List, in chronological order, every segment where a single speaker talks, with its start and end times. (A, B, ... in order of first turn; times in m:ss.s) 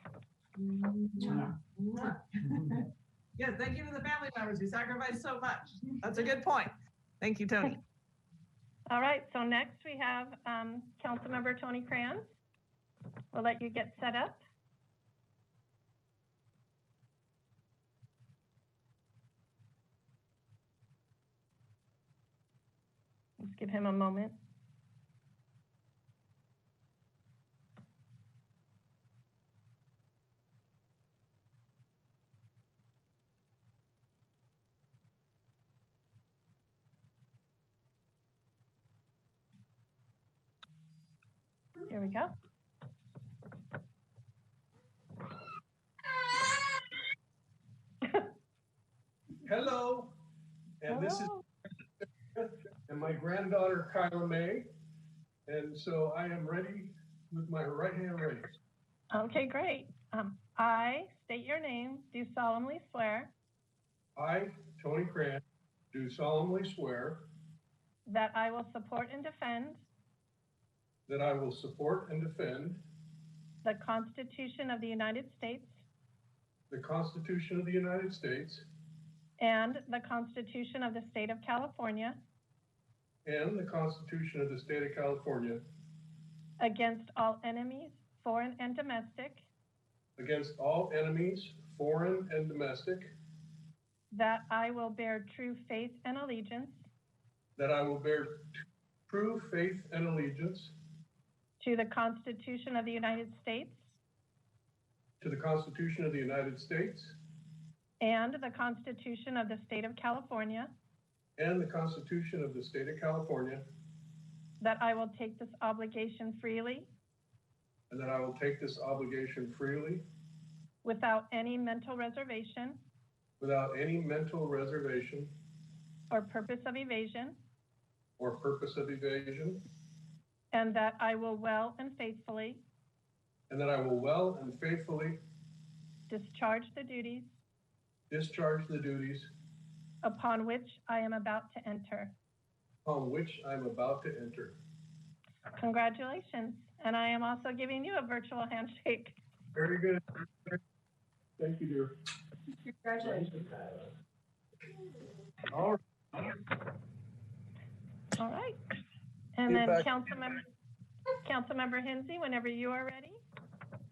0:01.1-0:07.8 A
0:08.9-0:12.3 B
0:13.3-0:14.4 B
0:23.4-0:24.4 B
0:41.9-0:42.3 B
0:49.4-0:50.2 C
0:50.8-0:51.3 C
0:50.9-0:51.4 B
0:52.3-0:54.7 C
0:55.5-0:58.5 C
0:59.1-1:03.3 B
1:04.2-1:07.2 C
1:08.0-1:09.9 B
1:11.1-1:12.8 C
1:13.6-1:15.8 B
1:16.7-1:18.6 C
1:19.4-1:22.2 B
1:23.2-1:25.6 C
1:26.6-1:29.5 B
1:30.2-1:33.1 C
1:34.1-1:36.8 B
1:37.6-1:38.5 C
1:39.1-1:40.7 C
1:41.6-1:43.9 B
1:45.2-1:47.2 C
1:48.0-1:50.7 B
1:51.4-1:53.6 C
1:54.6-1:56.9 B
1:57.9-2:00.0 C
2:00.8-2:02.8 B
2:03.4-2:05.3 C
2:06.1-2:07.4 B
2:08.2-2:09.6 C
2:10.5-2:12.6 B
2:13.5-2:15.2 C
2:16.1-2:17.3 B
2:18.1-2:19.3 C
2:20.0-2:22.2 B
2:22.8-2:24.6 C
2:25.5-2:29.2 B
2:29.5-2:30.6 C
2:31.4-2:32.0 C
2:33.2-2:33.5 C
2:38.2-2:38.6 B
2:39.4-2:40.4 B
2:39.5-2:39.9 C
2:41.2-2:43.2 B